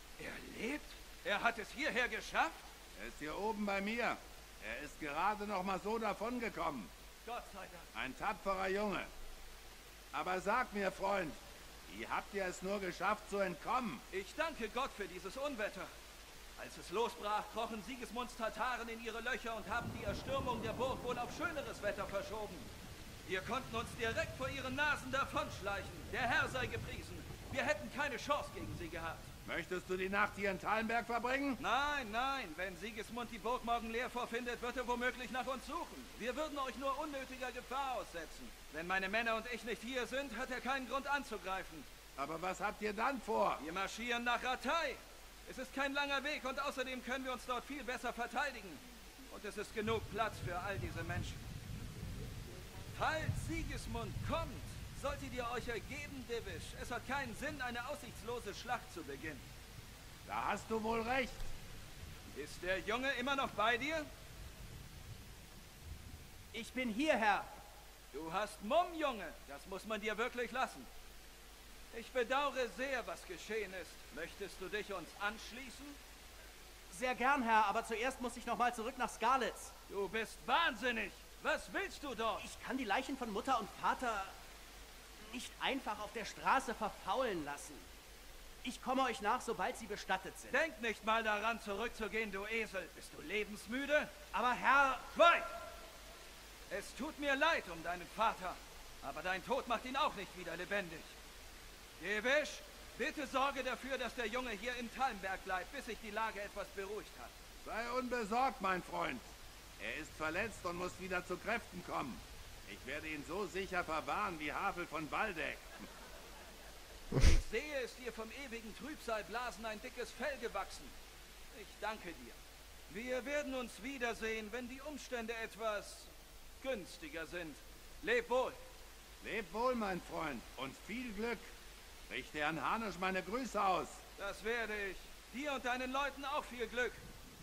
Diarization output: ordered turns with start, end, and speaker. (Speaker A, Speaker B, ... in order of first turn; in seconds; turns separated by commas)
Speaker A: 0.2-2.7, Speaker B: 3.0-6.9, Speaker A: 7.3-7.9, Speaker B: 7.9-9.1, Speaker B: 10.1-14.0, Speaker A: 14.1-15.9, Speaker A: 16.6-22.7, Speaker A: 23.2-29.3, Speaker B: 29.4-31.6, Speaker A: 31.6-41.9, Speaker B: 42.2-43.6, Speaker A: 43.6-51.5, Speaker A: 52.9-59.5, Speaker B: 60.3-61.5, Speaker A: 62.3-64.1, Speaker C: 66.5-67.5, Speaker A: 68.1-70.9, Speaker A: 71.9-76.0, Speaker C: 76.9-79.7, Speaker A: 79.9-82.5, Speaker C: 82.4-84.4, Speaker C: 85.2-87.9, Speaker C: 88.6-90.6, Speaker A: 90.5-95.5, Speaker A: 96.7-101.2, Speaker A: 102.0-107.4, Speaker B: 107.6-109.2, Speaker B: 109.8-115.9, Speaker A: 117.1-120.9, Speaker A: 121.5-122.4, Speaker A: 122.9-128.6, Speaker B: 129.2-131.5, Speaker B: 132.1-134.0, Speaker A: 134.2-137.0